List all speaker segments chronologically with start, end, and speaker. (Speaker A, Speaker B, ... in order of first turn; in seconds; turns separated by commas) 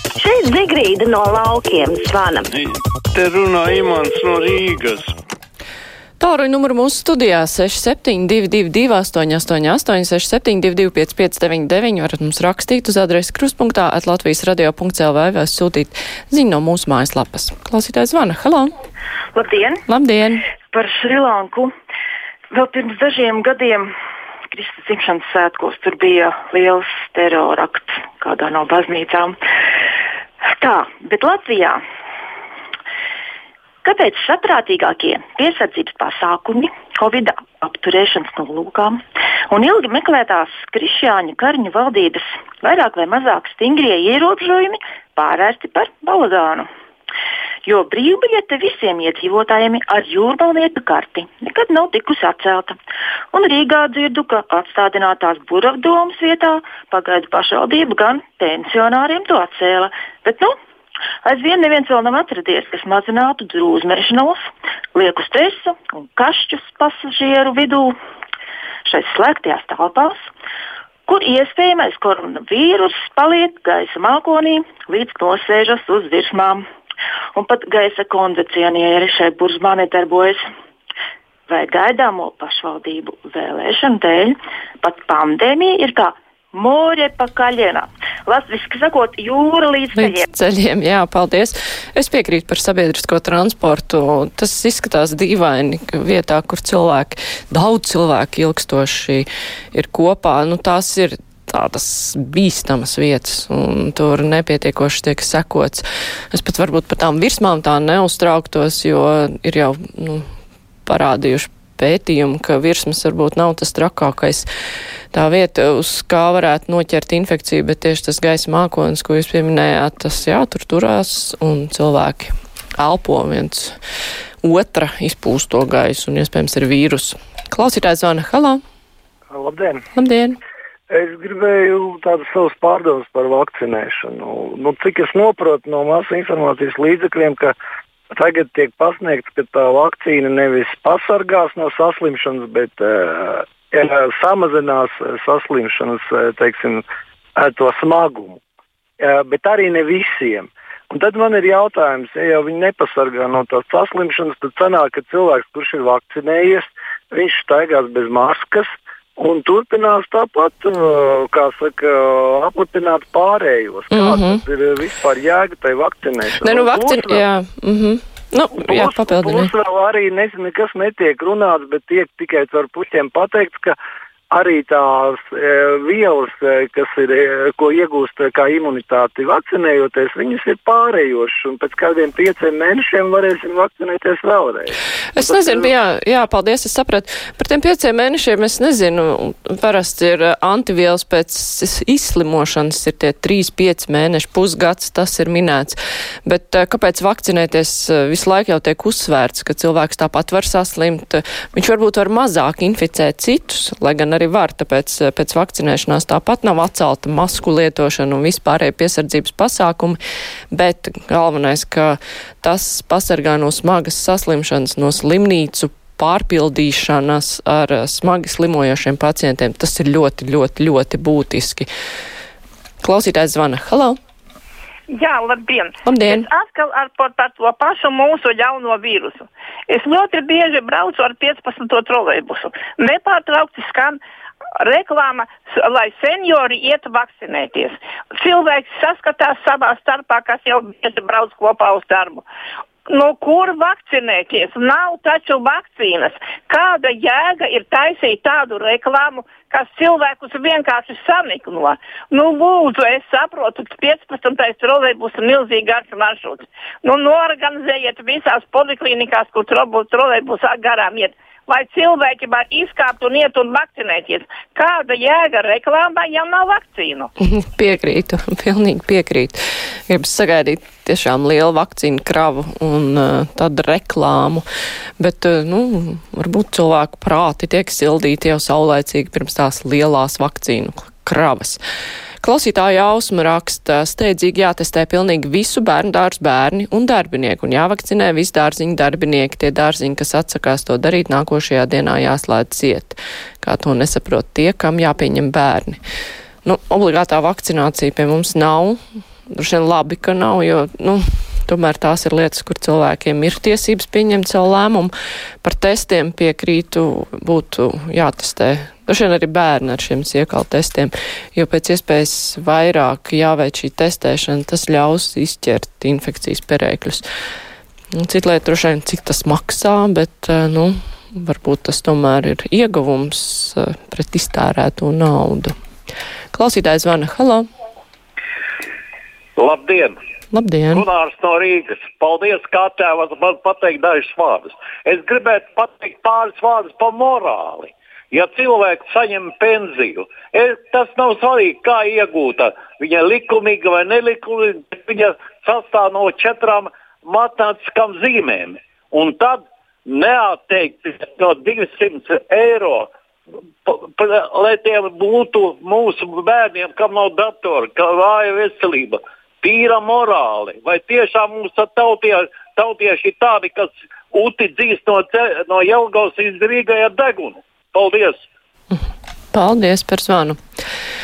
Speaker A: 0.2-2.5, Speaker B: 2.5-5.1, Speaker C: 6.2-18.7, Speaker D: 19.3-19.8, Speaker C: 19.9-20.4, Speaker D: 20.7-21.7, Speaker D: 22.5-23.9, Speaker D: 24.5-29.4, Speaker D: 30.6-31.8, Speaker D: 33.8-46.7, Speaker D: 47.6-52.8, Speaker D: 53.3-60.5, Speaker D: 61.2-64.4, Speaker D: 64.9-67.9, Speaker D: 68.8-70.2, Speaker D: 71.1-76.6, Speaker D: 77.3-80.4, Speaker D: 81.5-90.2, Speaker C: 90.0-110.2, Speaker C: 110.9-114.5, Speaker C: 115.1-123.8, Speaker C: 124.4-128.6, Speaker E: 129.3-129.8, Speaker C: 129.9-130.4, Speaker E: 130.9-137.6, Speaker E: 138.1-146.9, Speaker E: 147.4-148.4, Speaker E: 149.0-167.2, Speaker C: 163.9-164.4, Speaker C: 166.4-169.5, Speaker E: 168.6-173.8, Speaker E: 174.3-185.7, Speaker C: 185.1-210.0, Speaker C: 210.5-221.7, Speaker C: 222.8-224.0, Speaker F: 224.9-234.0, Speaker C: 225.8-226.3, Speaker F: 234.6-242.2, Speaker F: 242.9-267.1, Speaker C: 267.2-274.4, Speaker C: 275.0-281.6, Speaker C: 282.2-295.8, Speaker C: 296.4-298.8, Speaker C: 299.3-317.1, Speaker C: 318.0-325.6, Speaker C: 326.3-327.5, Speaker G: 329.4-330.0, Speaker C: 330.3-330.9, Speaker G: 330.8-352.9, Speaker G: 353.7-368.2, Speaker C: 369.3-370.4